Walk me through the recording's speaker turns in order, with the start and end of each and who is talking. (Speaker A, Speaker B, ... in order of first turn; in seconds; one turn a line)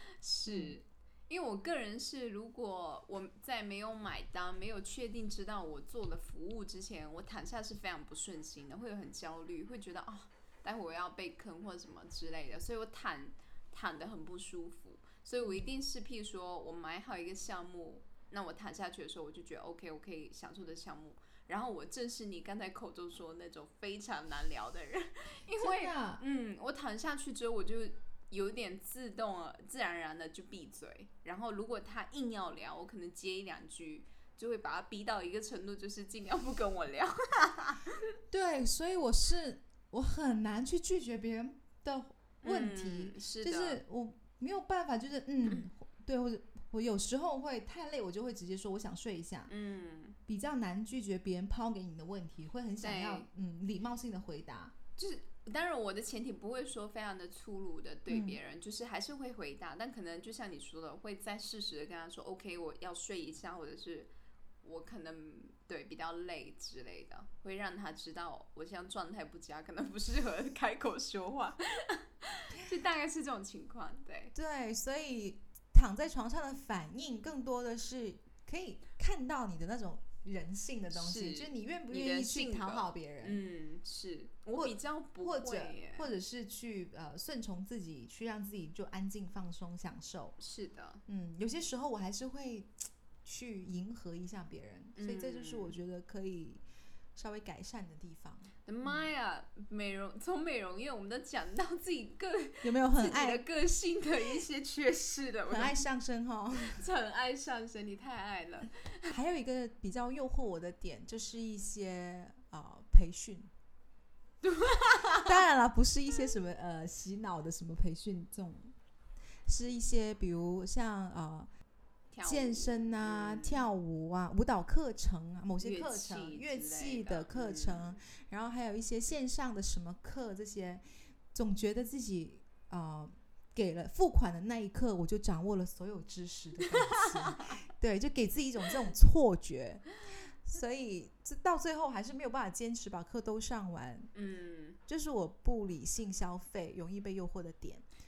Speaker A: 0.2-38.0
Speaker B: 0.5-0.8
Speaker B: 25.6-26.2
Speaker B: 38.3-49.5
Speaker A: 42.4-43.8
Speaker A: 49.5-50.2
Speaker B: 50.3-54.7
Speaker A: 52.8-53.3
Speaker A: 55.0-64.1
Speaker B: 58.1-58.4
Speaker A: 64.6-74.3
Speaker B: 74.3-83.4
Speaker A: 80.9-86.1
Speaker B: 84.5-90.4
Speaker A: 90.4-91.0
Speaker B: 91.1-96.6
Speaker A: 95.0-95.8
Speaker B: 97.2-99.1
Speaker A: 98.7-105.8
Speaker B: 102.6-103.4
Speaker B: 105.5-106.8
Speaker A: 106.5-109.1
Speaker B: 109.1-113.5
Speaker A: 114.4-115.3
Speaker B: 115.1-118.7
Speaker B: 119.5-121.5
Speaker A: 122.1-123.7
Speaker B: 122.2-144.1
Speaker A: 125.6-128.0
Speaker A: 136.7-137.6
Speaker A: 144.1-144.8
Speaker B: 144.9-147.8